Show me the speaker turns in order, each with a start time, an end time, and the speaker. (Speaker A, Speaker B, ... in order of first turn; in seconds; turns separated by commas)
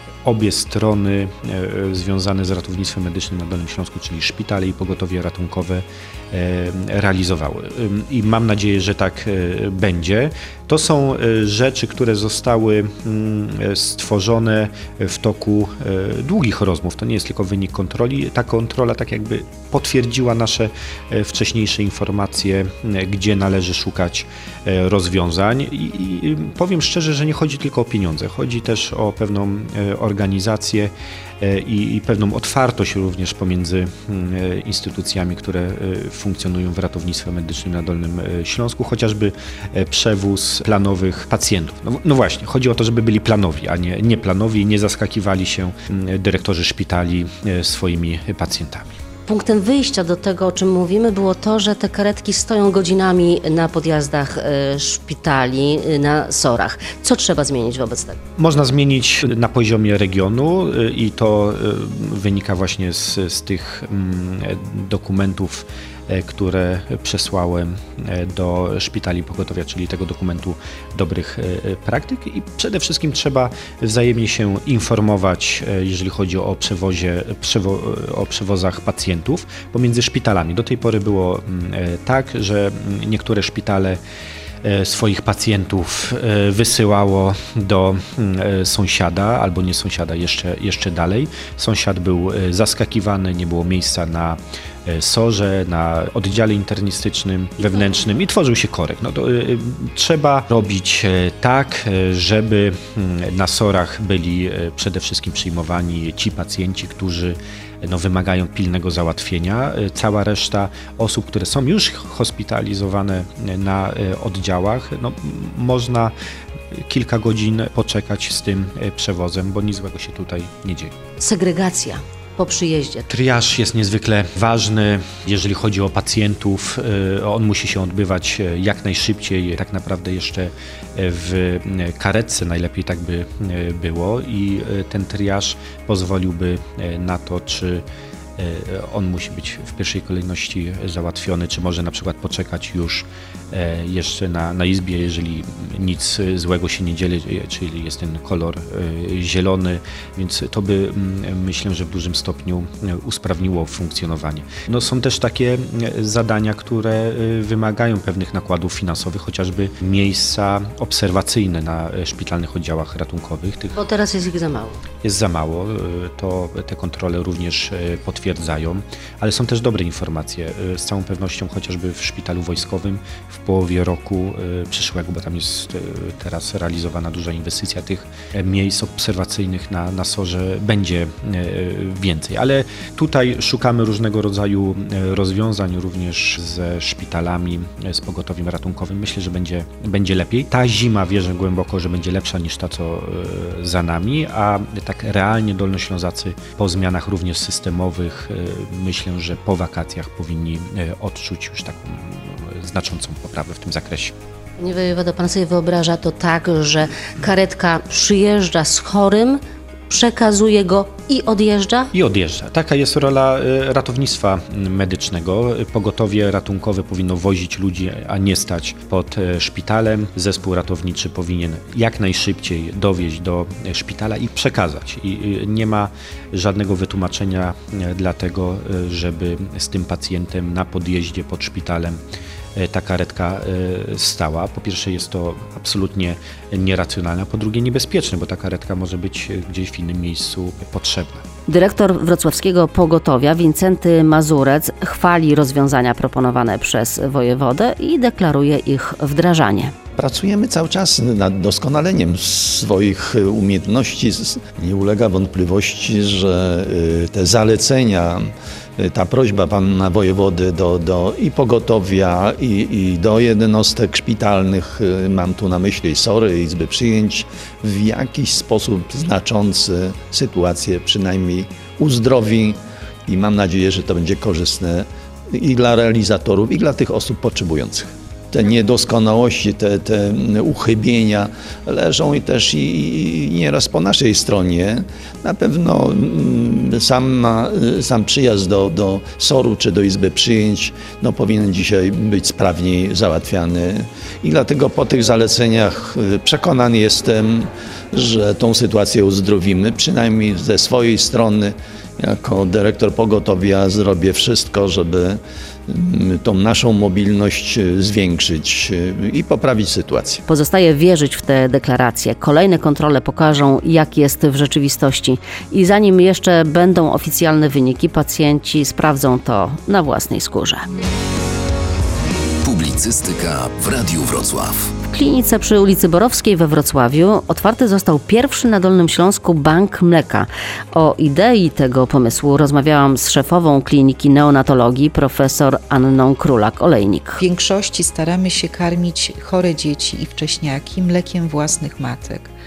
Speaker A: 0.2-48.9, Speaker B: 49.3-58.2, Speaker A: 58.4-84.0, Speaker A: 84.6-116.1, Speaker A: 116.7-120.9, Speaker B: 121.2-123.0, Speaker A: 123.1-137.8, Speaker A: 138.4-163.8, Speaker B: 163.7-164.8, Speaker A: 165.0-204.1, Speaker B: 204.6-211.9, Speaker A: 211.9-232.0, Speaker A: 232.6-241.2, Speaker B: 241.5-249.7, Speaker C: 250.0-310.2, Speaker B: 310.3-320.6, Speaker D: 322.4-324.7, Speaker B: 324.8-337.2, Speaker E: 337.2-342.3